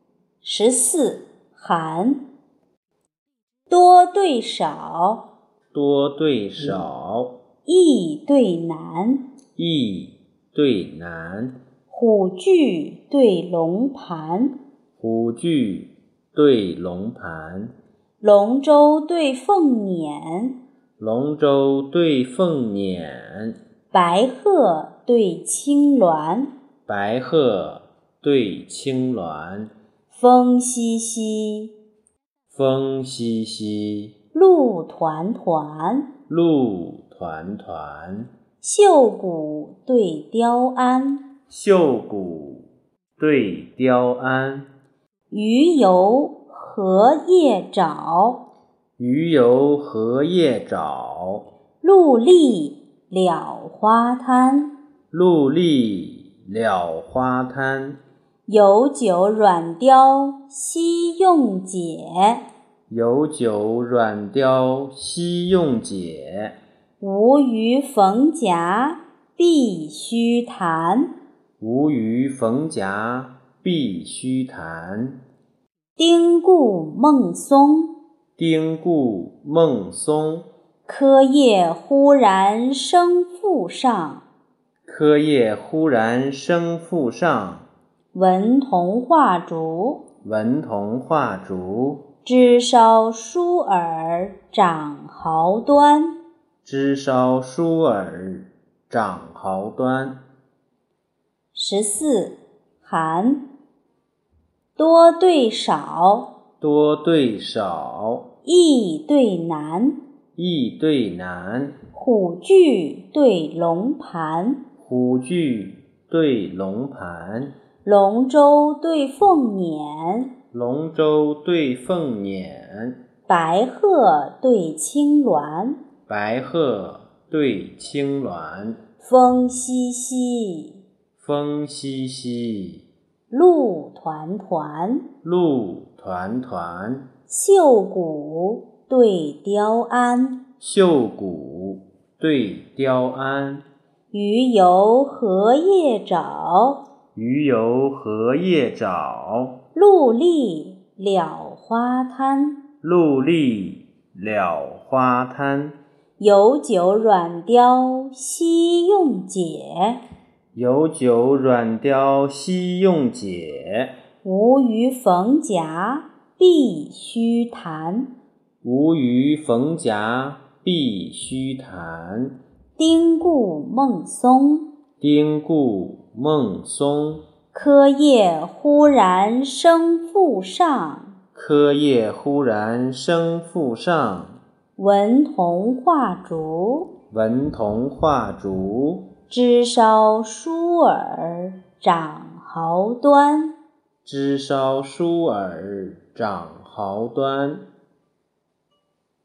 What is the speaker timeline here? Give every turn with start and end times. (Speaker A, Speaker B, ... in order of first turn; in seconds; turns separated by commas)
Speaker A: 0.4-2.2, Speaker A: 3.7-5.2, Speaker B: 5.7-7.3, Speaker A: 7.7-9.2, Speaker B: 9.6-11.6, Speaker A: 11.9-14.6, Speaker B: 15.0-17.7, Speaker A: 18.2-20.6, Speaker B: 21.0-23.6, Speaker A: 23.9-26.5, Speaker B: 26.9-29.7, Speaker A: 30.1-31.7, Speaker B: 32.5-34.1, Speaker A: 34.3-36.1, Speaker B: 36.3-38.3, Speaker A: 38.6-41.2, Speaker B: 41.5-44.7, Speaker A: 45.3-48.4, Speaker B: 49.0-51.5, Speaker A: 51.8-54.7, Speaker B: 55.1-58.0, Speaker A: 58.5-62.4, Speaker B: 62.9-66.5, Speaker A: 67.0-71.1, Speaker B: 71.6-75.2, Speaker A: 76.0-77.9, Speaker B: 78.4-80.5, Speaker A: 80.9-84.2, Speaker B: 84.9-87.7, Speaker A: 88.1-90.0, Speaker B: 90.2-92.0, Speaker A: 92.2-96.2, Speaker B: 96.6-100.2, Speaker A: 101.5-103.4, Speaker A: 104.8-106.3, Speaker B: 106.6-108.3, Speaker A: 108.4-110.0, Speaker B: 110.4-111.8, Speaker A: 111.9-114.6, Speaker B: 114.8-117.5, Speaker A: 117.8-120.3, Speaker B: 120.5-123.0, Speaker A: 123.3-125.8, Speaker B: 126.1-128.8, Speaker A: 129.0-130.8, Speaker B: 131.2-132.8, Speaker A: 133.3-135.1, Speaker B: 135.2-137.1, Speaker A: 137.3-140.4, Speaker B: 140.6-143.7, Speaker A: 144.1-146.8, Speaker B: 147.2-149.6, Speaker A: 149.8-152.6, Speaker B: 152.8-155.8, Speaker A: 156.2-160.0, Speaker B: 160.5-163.9, Speaker A: 164.2-168.1, Speaker B: 168.6-172.4, Speaker A: 172.8-174.7, Speaker B: 175.0-177.2, Speaker A: 177.5-181.2, Speaker B: 181.3-184.4, Speaker A: 184.8-186.9, Speaker B: 187.1-189.1, Speaker A: 189.3-193.6, Speaker B: 194.1-197.7